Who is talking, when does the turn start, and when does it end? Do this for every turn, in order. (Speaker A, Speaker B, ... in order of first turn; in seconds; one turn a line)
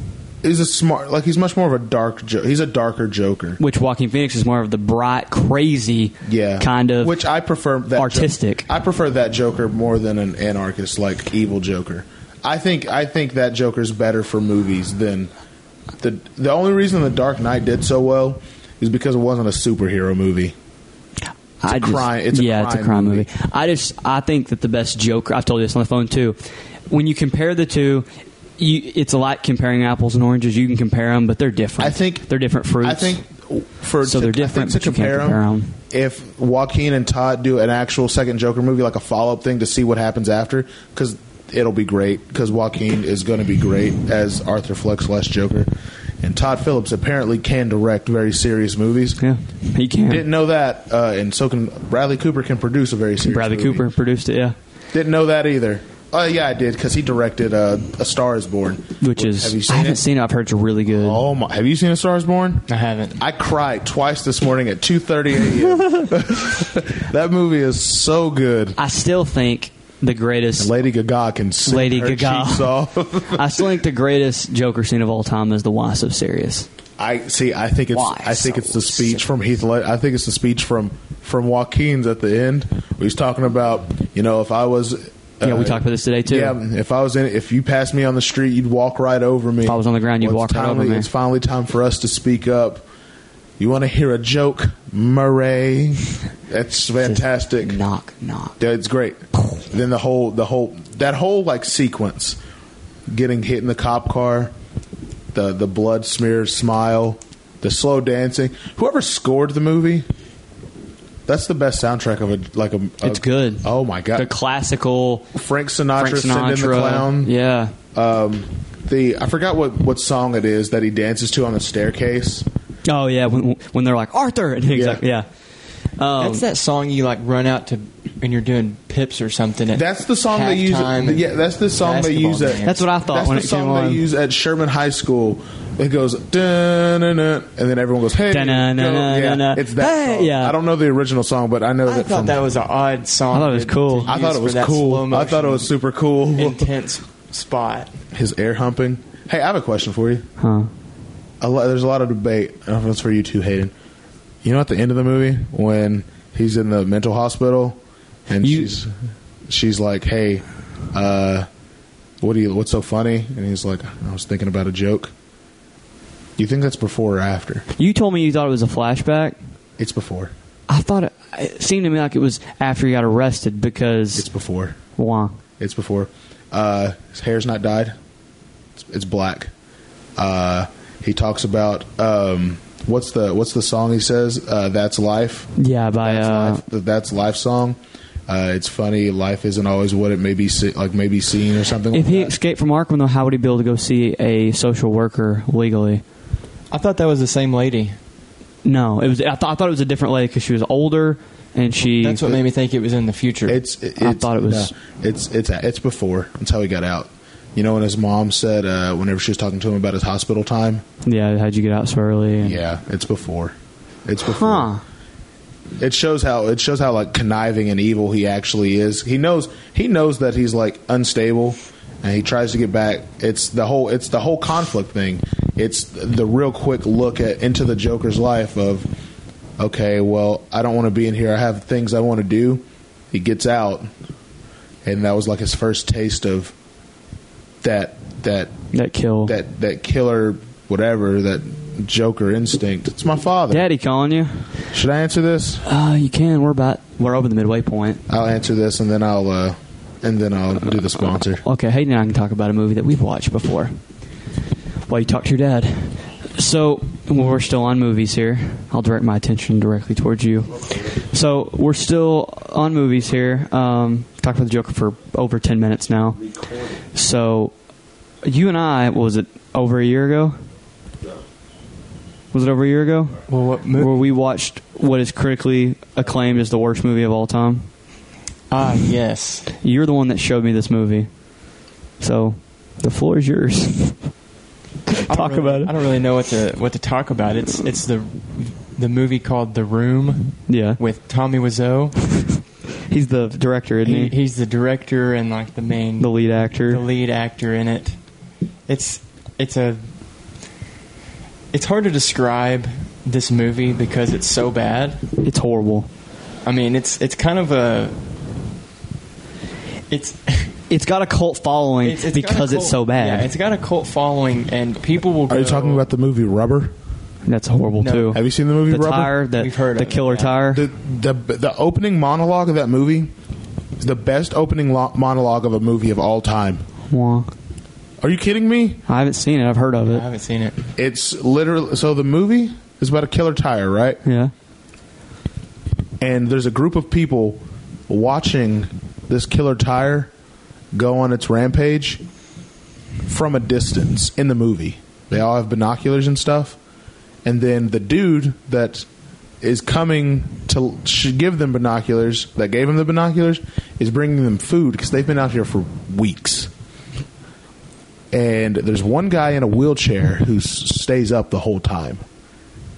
Speaker A: 0.4-3.6
Speaker B: 3.6-7.1
Speaker A: 6.2-15.3
Speaker B: 8.0-8.7
Speaker A: 16.0-20.6
Speaker B: 21.6-26.4
Speaker A: 21.6-23.3
Speaker B: 26.9-33.2
Speaker A: 31.8-32.3
Speaker A: 32.8-45.7
Speaker B: 34.0-35.7
Speaker A: 46.2-49.2
Speaker B: 49.2-50.2
Speaker A: 50.1-53.9
Speaker B: 53.2-54.6
Speaker A: 54.9-60.0
Speaker B: 59.0-61.2
Speaker A: 60.9-62.7
Speaker C: 62.7-63.2
Speaker A: 63.2-68.8
Speaker B: 68.8-70.7
Speaker A: 70.6-73.8
Speaker B: 71.7-72.7
Speaker B: 73.3-76.7
Speaker A: 77.0-92.8
Speaker B: 77.9-79.2
Speaker B: 85.4-86.6
Speaker B: 89.6-91.1
Speaker A: 93.6-97.8
Speaker B: 97.0-98.6
Speaker A: 98.6-102.4
Speaker A: 103.1-104.5
Speaker A: 105.3-110.1
Speaker A: 111.3-114.3
Speaker B: 113.0-115.3
Speaker A: 115.3-117.3
Speaker B: 116.0-117.7
Speaker A: 117.9-122.5
Speaker B: 122.9-125.3
Speaker A: 124.7-125.0
Speaker B: 126.0-126.5
Speaker C: 126.2-132.9
Speaker A: 129.7-142.4
Speaker B: 132.7-134.0
Speaker B: 138.3-140.6
Speaker C: 141.8-145.7
Speaker B: 143.3-144.1
Speaker A: 144.1-146.7
Speaker C: 146.3-147.9
Speaker A: 148.1-150.3
Speaker B: 150.4-150.7
Speaker A: 151.4-153.7
Speaker A: 154.4-158.9
Speaker B: 158.4-158.7
Speaker A: 159.5-161.5
Speaker A: 162.2-165.1
Speaker A: 166.4-167.7
Speaker B: 167.8-169.4
Speaker A: 169.8-170.3
Speaker B: 170.7-174.3
Speaker A: 174.2-174.8
Speaker B: 175.0-175.4
Speaker A: 175.6-178.0
Speaker A: 178.8-179.5
Speaker A: 180.2-192.3
Speaker B: 185.6-186.6
Speaker B: 191.9-196.0
Speaker C: 196.7-198.0
Speaker B: 198.7-202.4
Speaker C: 202.0-203.6
Speaker A: 203.5-210.8
Speaker B: 204.0-204.7
Speaker B: 211.0-212.6
Speaker A: 212.4-214.7
Speaker B: 214.2-214.8
Speaker A: 215.8-228.9
Speaker A: 229.6-233.9
Speaker A: 234.8-236.5
Speaker A: 237.6-238.5
Speaker B: 238.7-239.4
Speaker A: 239.3-243.7
Speaker B: 243.5-244.5
Speaker A: 244.7-245.6
Speaker B: 245.6-248.0
Speaker A: 248.1-251.4
Speaker B: 251.4-253.8
Speaker B: 254.9-266.2
Speaker B: 266.9-267.5
Speaker B: 268.2-270.4
Speaker B: 272.3-273.2
Speaker C: 273.3-273.9
Speaker B: 273.7-277.7
Speaker C: 278.5-279.5
Speaker B: 279.6-281.1
Speaker B: 282.0-284.0
Speaker B: 284.9-285.7
Speaker C: 285.1-292.1
Speaker B: 290.5-290.8
Speaker B: 292.9-294.1
Speaker C: 293.8-296.1
Speaker B: 296.0-296.8
Speaker C: 296.6-298.0
Speaker C: 298.7-299.9
Speaker C: 301.5-305.0
Speaker B: 305.2-305.9
Speaker C: 306.4-308.0
Speaker C: 309.9-310.5
Speaker B: 310.7-313.3
Speaker C: 311.8-315.9
Speaker A: 315.3-316.7
Speaker B: 317.3-320.6
Speaker C: 317.8-318.2
Speaker A: 318.1-319.1
Speaker C: 319.4-320.4
Speaker A: 320.5-323.1
Speaker A: 323.8-326.6
Speaker B: 326.9-327.3
Speaker A: 328.0-328.8
Speaker B: 328.9-330.1
Speaker C: 329.9-330.7
Speaker A: 330.8-334.0
Speaker B: 334.1-334.3
Speaker A: 336.0-340.1
Speaker A: 340.7-342.0
Speaker A: 343.1-346.6
Speaker A: 347.2-348.9
Speaker A: 349.4-356.5
Speaker A: 358.1-362.0